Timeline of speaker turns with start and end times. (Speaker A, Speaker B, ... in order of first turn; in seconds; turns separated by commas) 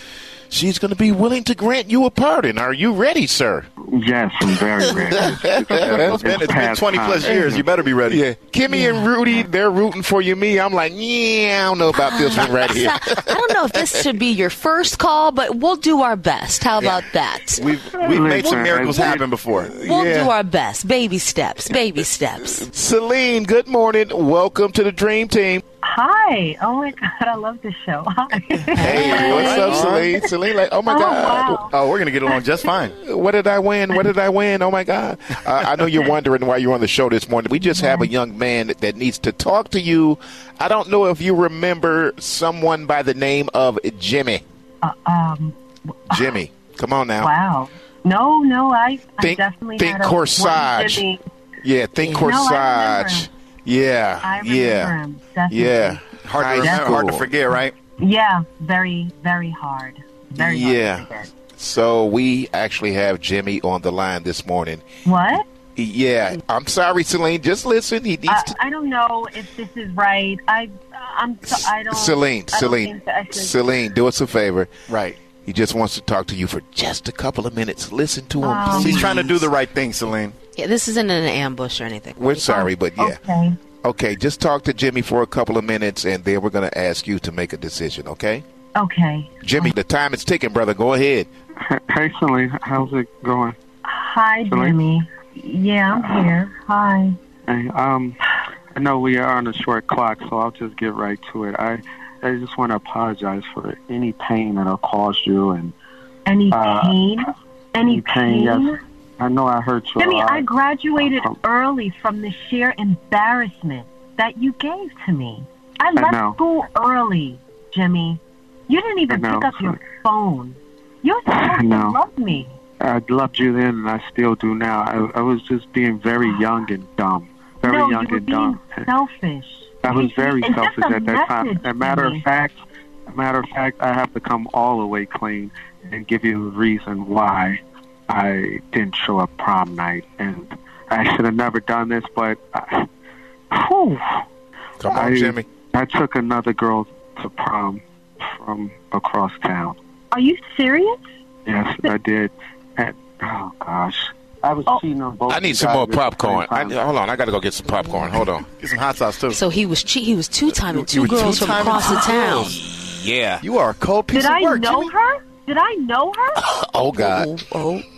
Speaker A: 0.5-3.7, Speaker B: 3.9-7.3, Speaker A: 5.0-6.2, Speaker C: 5.8-8.2, Speaker A: 7.2-13.2, Speaker D: 11.9-17.6, Speaker C: 17.5-19.7, Speaker B: 18.0-19.2, Speaker A: 19.7-20.3, Speaker D: 19.8-22.6, Speaker A: 22.4-25.6, Speaker E: 25.8-30.3, Speaker A: 28.8-31.6, Speaker C: 28.8-30.1, Speaker E: 30.9-31.7, Speaker C: 31.7-33.0, Speaker A: 33.0-44.4, Speaker E: 37.6-38.1, Speaker E: 44.8-46.4, Speaker A: 46.1-47.3, Speaker E: 47.2-51.2, Speaker A: 49.2-51.0, Speaker A: 51.6-54.9, Speaker E: 52.0-53.3, Speaker E: 54.2-56.0, Speaker A: 55.5-57.3, Speaker C: 56.2-57.7, Speaker E: 56.6-56.9, Speaker E: 58.0-61.3, Speaker A: 60.4-68.5, Speaker E: 65.0-65.4, Speaker E: 68.3-73.5, Speaker A: 71.5-74.7, Speaker C: 74.9-75.2, Speaker A: 75.4-79.4, Speaker E: 78.3-79.1, Speaker C: 78.7-80.3, Speaker D: 80.5-82.4, Speaker A: 82.2-83.2, Speaker E: 82.4-83.6, Speaker A: 83.8-88.4, Speaker E: 88.7-89.7, Speaker A: 89.4-91.3, Speaker B: 91.6-93.6, Speaker E: 93.8-97.2, Speaker B: 94.5-94.8, Speaker B: 97.5-98.2, Speaker B: 98.7-105.7, Speaker E: 106.2-108.8, Speaker B: 106.5-107.0, Speaker B: 107.8-110.5, Speaker E: 110.0-122.5, Speaker B: 111.0-111.3, Speaker B: 116.0-116.4, Speaker B: 119.1-119.8, Speaker B: 121.3-122.0, Speaker B: 122.8-128.9, Speaker E: 127.6-132.2, Speaker B: 129.8-142.9, Speaker B: 143.5-144.0, Speaker A: 144.8-145.5, Speaker B: 144.9-149.8, Speaker E: 150.1-151.0, Speaker B: 151.4-156.8, Speaker A: 155.3-158.5, Speaker C: 158.6-159.4, Speaker D: 159.3-162.6, Speaker C: 160.6-162.6, Speaker A: 162.3-163.4, Speaker C: 163.4-164.9, Speaker E: 164.1-166.4, Speaker A: 166.4-167.3, Speaker D: 166.9-167.9